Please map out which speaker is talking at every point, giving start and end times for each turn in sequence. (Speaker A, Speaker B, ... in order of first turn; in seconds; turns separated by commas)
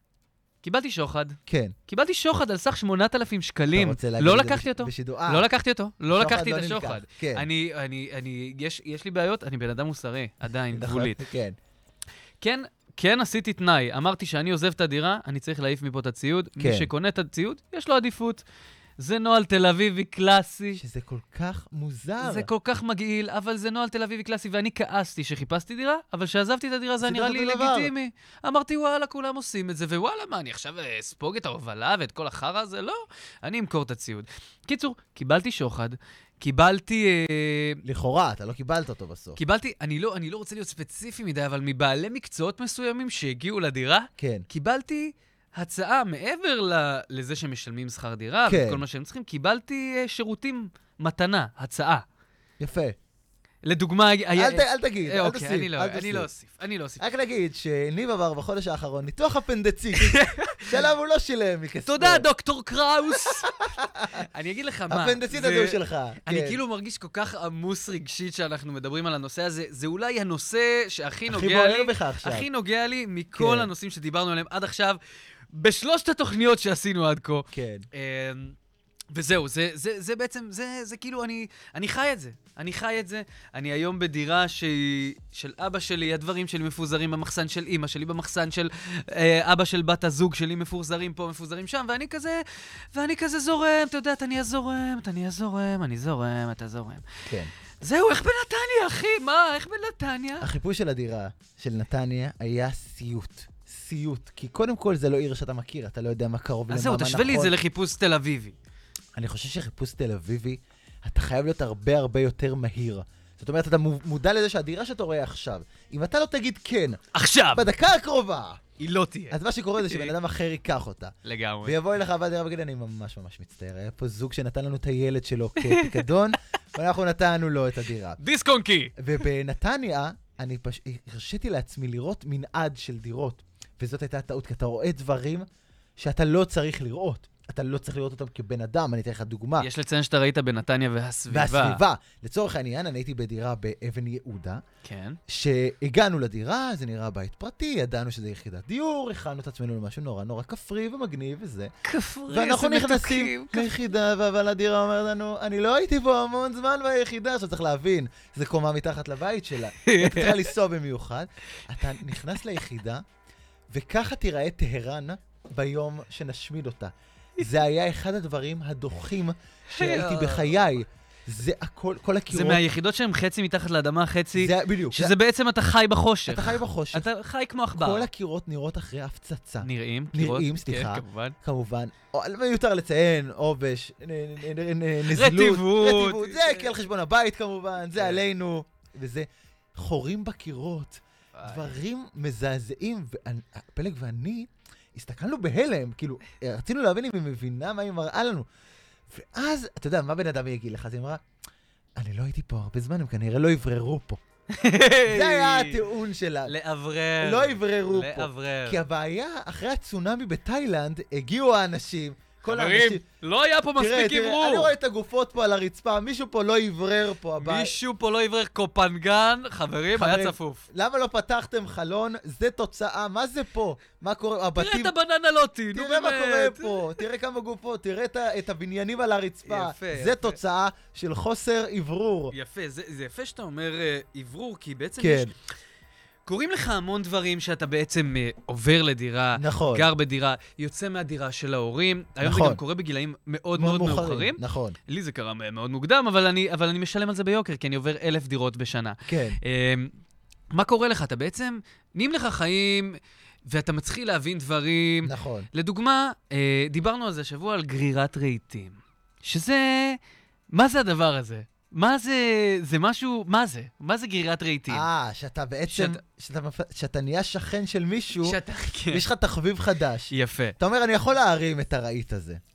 Speaker A: 0.6-11.2, Speaker B: 1.5-1.8, Speaker B: 3.7-5.5, Speaker B: 6.1-7.5, Speaker B: 10.7-11.6, Speaker A: 12.4-18.4, Speaker B: 16.6-16.9, Speaker A: 19.0-20.8, Speaker B: 20.8-22.5, Speaker A: 22.2-37.8, Speaker B: 27.0-27.9, Speaker B: 37.9-39.4, Speaker A: 39.4-52.0, Speaker B: 44.2-44.5, Speaker B: 48.5-48.8, Speaker B: 52.6-53.0, Speaker A: 53.7-57.0, Speaker B: 54.4-56.3, Speaker B: 57.0-62.3, Speaker A: 59.9-60.8, Speaker A: 61.9-63.5, Speaker B: 63.2-64.2, Speaker A: 64.2-75.0, Speaker B: 64.9-66.6, Speaker B: 71.3-72.5, Speaker B: 73.3-73.7, Speaker A: 75.5-78.6, Speaker B: 77.5-77.9, Speaker A: 79.1-97.1, Speaker A: 97.8-100.5, Speaker B: 100.4-107.5, Speaker A: 106.7-108.6, Speaker B: 109.2-117.0, Speaker A: 117.1-117.7, Speaker B: 117.5-118.6, Speaker A: 118.8-120.1, Speaker B: 119.3-128.2, Speaker A: 121.2-121.8, Speaker A: 125.6-126.0, Speaker A: 128.2-128.9, Speaker B: 129.0-135.5, Speaker B: 136.0-139.7, Speaker A: 139.6-141.8, Speaker B: 141.3-144.6, Speaker A: 144.8-145.2, Speaker B: 145.3-151.7, Speaker A: 151.8-153.7, Speaker B: 152.3-163.0, Speaker A: 159.8-160.4, Speaker B: 163.7-172.6, Speaker A: 169.7-170.8, Speaker A: 172.3-178.1, Speaker B: 174.4-175.2, Speaker B: 176.3-177.1, Speaker B: 177.8-198.5, Speaker A: 179.6-181.3, Speaker A: 185.1-186.7, Speaker A: 191.4-191.7, Speaker B: 199.1-201.2, Speaker B: 202.0-204.2, Speaker A: 204.5-205.8, Speaker B: 205.1-206.5, Speaker A: 206.5-208.8, Speaker B: 207.2-213.0, Speaker A: 212.4-214.7, Speaker B: 213.8-217.8, Speaker A: 217.4-220.7, Speaker B: 219.9-224.9, Speaker A: 224.6-227.0, Speaker B: 225.7-232.3, Speaker A: 229.5-230.4, Speaker A: 232.3-235.3, Speaker B: 235.0-235.3, Speaker A: 236.3-249.9, Speaker B: 239.3-239.9, Speaker B: 242.2-242.6, Speaker B: 243.5-244.8, Speaker B: 249.1-249.4, Speaker A: 250.5-260.0, Speaker B: 255.0-255.5, Speaker A: 260.5-264.9, Speaker B: 264.7-272.4, Speaker A: 265.7-266.0, Speaker A: 268.2-269.1, Speaker A: 270.1-270.6